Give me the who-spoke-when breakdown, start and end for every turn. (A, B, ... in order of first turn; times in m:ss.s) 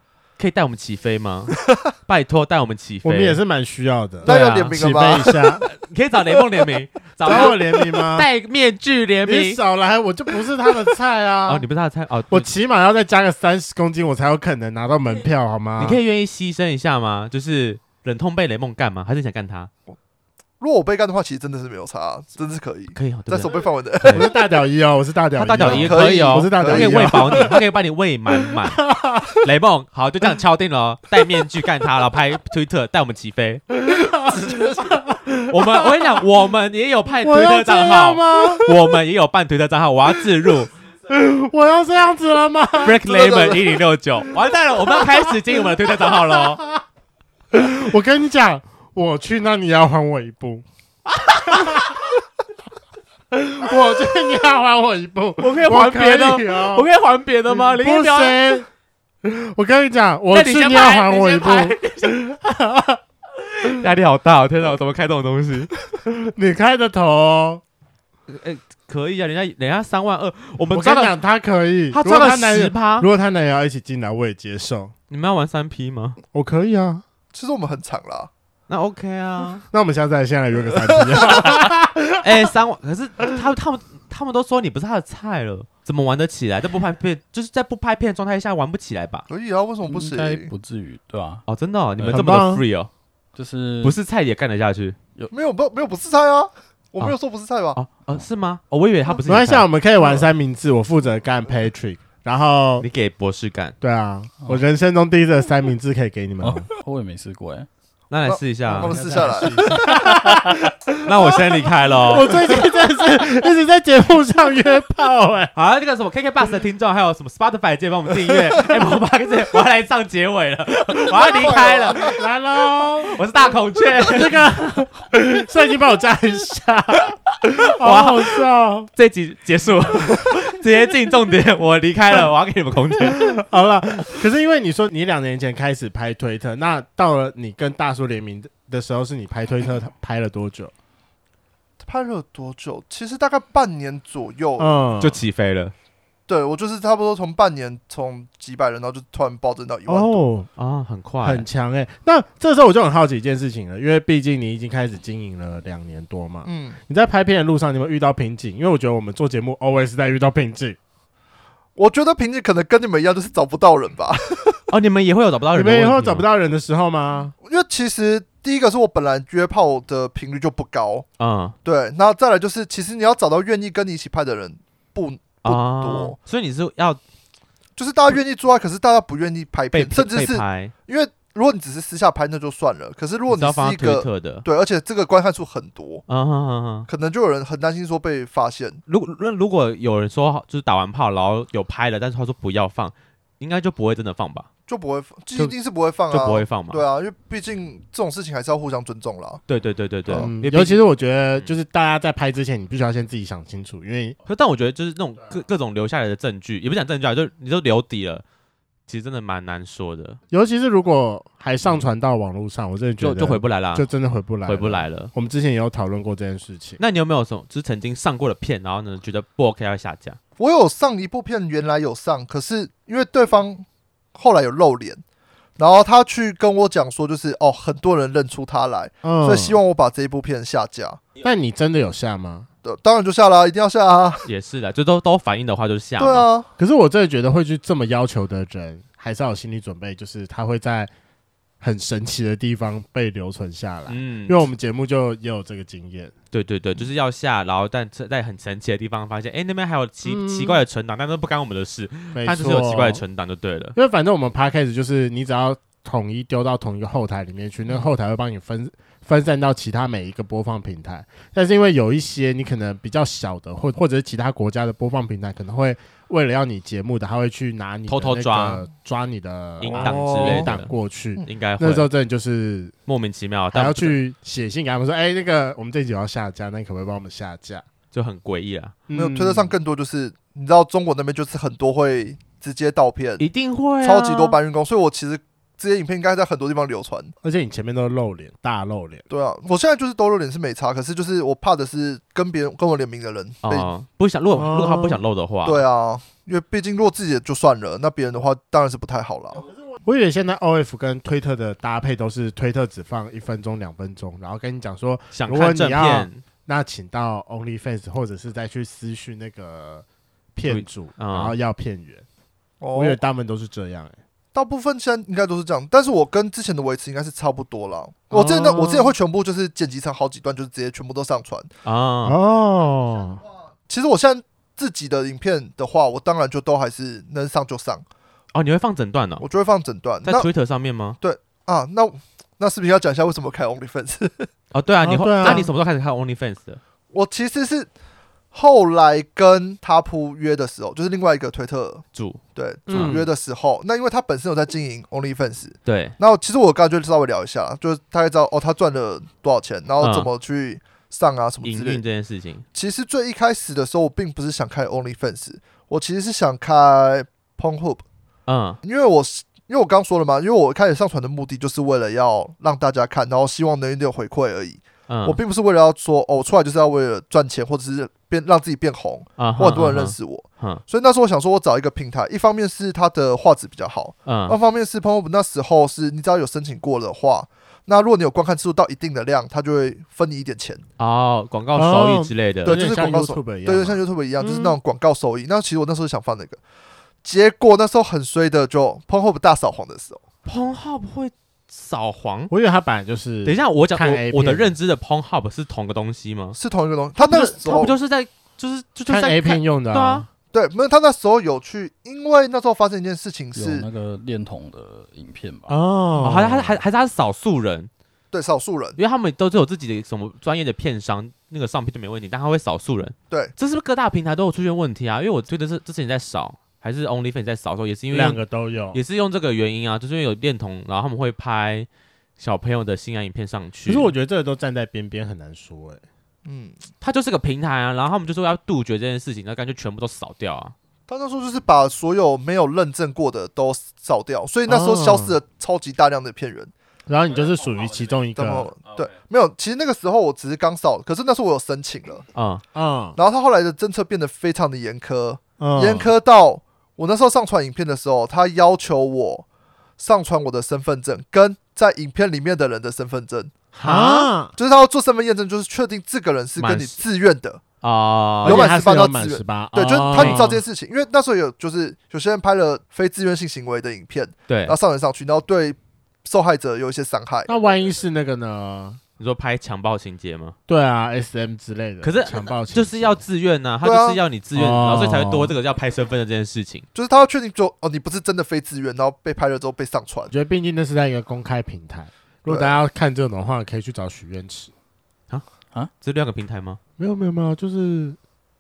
0:00.4-0:03.4 A
0:03.0-0:05.6 B
0:04.2-0:04.8 A
0:04.2-0:05.6 C
0:05.6-0:09.6 A
0:07.2-0:08.3 B
0:09.2-0:11.6 B
0:11.5-0:12.5 A
0:12.3-0:16.0 B
0:15.8-0:19.7 A
0:20.6-0:24.3 C
0:22.9-0:24.3 A
0:24.0-0:27.6 B
0:25.4-0:28.8 A
0:25.6-0:27.5 C
0:28.5-0:29.4 B
0:29.4-0:33.6 A
0:33.7-0:36.2 B
0:34.2-0:34.9 C
0:35.5-0:40.7 A
0:37.2-0:38.8 B
0:41.1-0:43.1 B
0:42.8-0:46.6 A
0:43.0-0:43.6 C
0:45.0-0:45.3 B
0:46.0-0:46.8 B
0:47.5-0:50.6 B
0:51.1-0:51.9 A
0:51.5-0:52.0 B
0:53.3-0:56.9 B
0:55.4-0:58.4 A
0:57.5-0:58.7 B
0:59.2-1:03.0 B
1:00.3-1:02.2 A
1:03.6-1:05.7 A
1:06.0-1:07.6 B
1:08.3-1:11.1 A
1:10.7-1:14.9 B
1:11.9-1:13.1 A
1:15.1-1:16.2 A
1:16.3-1:17.0 B
1:17.3-1:18.3 C
1:18.7-1:19.6 A
1:19.7-1:22.5 B
1:20.8-1:21.4 C
1:22.2-1:29.3 A
1:29.3-1:30.5 C
1:29.8-1:31.4 D
1:31.5-1:32.9 A
1:32.0-1:32.3 D
1:32.1-1:32.6 B
1:33.3-1:34.0 D
1:33.8-1:35.0 A
1:35.3-1:37.8 C
1:37.7-1:39.7 A
1:39.2-1:42.8 B
1:42.8-1:43.8 A
1:43.8-1:46.7 B
1:46.4-1:47.7 D
1:48.1-1:49.0 A
1:48.2-1:49.8 C
1:48.9-1:49.9 D
1:48.9-1:55.5 B
1:51.0-1:52.6 A
1:55.5-2:02.1 A
2:01.2-2:03.2 B
2:01.2-2:02.2 C
2:03.1-2:04.4 A
2:04.0-2:08.9 B
2:07.7-2:08.4 A
2:08.9-2:13.4 A
2:13.0-2:20.7 B
2:21.8-2:24.7 C
2:24.6-2:25.2 B
2:25.0-2:25.7 A
2:26.3-2:30.2 C
2:29.9-2:30.5 B
2:30.6-2:31.4 A
2:31.2-2:40.8 B
2:36.4-2:36.8 C
2:41.8-2:44.6 C
2:44.7-2:46.2 A
2:45.5-2:47.3 B
2:47.4-2:51.0 C
2:51.2-2:51.6 A
2:51.6-2:56.2 C
2:55.4-2:57.0 A
2:57.8-3:06.0 C
2:59.7-3:00.7 A
3:03.3-3:04.4 A
3:06.1-3:06.9 A
3:06.9-3:08.8 C
3:08.9-3:14.5 A
3:14.7-3:19.4 C
3:16.1-3:16.8 A
3:19.5-3:20.8 A
3:20.1-3:24.2 B
3:24.2-3:28.2 A
3:28.9-3:30.2 A
3:30.3-3:36.8 B
3:33.0-3:33.8 A
3:34.4-3:35.1 A
3:36.8-3:40.2 A
3:40.4-3:45.0 C
3:45.6-3:51.0 C
3:49.0-3:49.6 B
3:51.2-3:52.5 B
3:52.6-3:54.2 C
3:54.2-3:56.3 A
3:56.0-3:56.5 C
3:56.6-4:00.9 B
4:01.6-4:06.1 B
4:03.9-4:04.5 A
4:06.3-4:13.8 A
4:10.0-4:10.6 B
4:12.1-4:13.0 B
4:13.7-4:32.7 B
4:27.9-4:28.6 A
4:29.6-4:30.7 A
4:29.7-4:30.5 C
4:31.2-4:31.9 A
4:32.9-4:34.0 A
4:33.5-4:37.6 B
4:37.9-4:38.8 A
4:38.9-4:39.5 B
4:38.9-4:43.3 C
4:43.2-4:44.4 A
4:43.8-4:47.1 C
4:47.2-4:49.0 B
4:49.1-4:53.7 C
4:53.4-4:55.6 A
4:54.3-4:55.0 B
4:55.4-4:59.5 C
4:59.8-5:12.0 B
5:05.1-5:06.2 A
5:10.4-5:11.3 A
5:12.6-5:13.0 C
5:12.7-5:14.0 B
5:14.3-5:21.5 C
5:18.1-5:19.0 B
5:21.6-5:22.2 A
5:22.0-5:23.2 B
5:23.7-5:27.8 C
5:28.3-5:29.2 A
5:29.2-5:30.3 C
5:30.0-5:31.0 A
5:31.0-5:34.3 C
5:34.5-5:36.6 A
5:34.8-5:35.5 B
5:35.2-5:35.5 C
5:36.9-5:37.7 C
5:38.3-5:41.8 C
5:41.9-5:43.0 A
5:42.3-5:51.8 C
5:42.7-5:43.1 B
5:45.6-5:46.0 A
5:49.8-5:50.1 A
5:51.4-5:52.4 A
5:52.5-5:57.8 C
5:58.3-5:58.6 A
5:58.6-6:20.6 C
6:04.9-6:05.2 A
6:09.2-6:10.6 A
6:14.0-6:14.4 A
6:20.8-6:22.6 A
6:21.5-6:24.6 B
6:22.4-6:26.4 C
6:27.0-6:30.0 C
6:30.2-6:32.3 A
6:32.3-6:34.5 B
6:33.2-6:36.4 A
6:36.3-6:37.8 C
6:37.0-6:40.0 A
6:38.9-6:40.1 B
6:40.3-6:43.7 C
6:43.3-6:45.6 D
6:45.5-6:46.6 B
6:46.0-6:47.7 A
6:48.1-6:48.8 C
6:48.8-6:58.2 A
6:57.9-6:58.8 B
6:58.7-7:03.9 A
7:03.6-7:05.8 B
7:06.2-7:06.6 C
7:06.8-7:10.5 A
7:10.9-7:16.5 C
7:14.4-7:15.2 B
7:16.9-7:18.5 B
7:18.2-7:22.0 C
7:22.1-7:22.4 A
7:22.5-7:23.0 B
7:23.0-7:29.2 C
7:25.4-7:25.9 B
7:29.8-7:33.3 C
7:33.5-7:34.1 A
7:33.6-7:34.3 B
7:34.3-7:37.4 C
7:36.4-7:36.8 A
7:37.6-7:38.5 A
7:38.2-7:40.4 B
7:38.2-7:47.3 C
7:39.9-7:40.2 A
7:44.3-7:44.5 A
7:47.3-7:48.8 B
7:49.0-7:50.4 A
7:50.5-7:53.0 B
7:51.8-7:56.6 A
7:53.6-7:54.0 C
7:54.3-7:55.3 B
7:56.7-8:00.1 C
8:00.1-8:04.5 B
8:02.3-8:02.6 C
8:05.8-8:06.6 A
8:06.8-8:08.0 B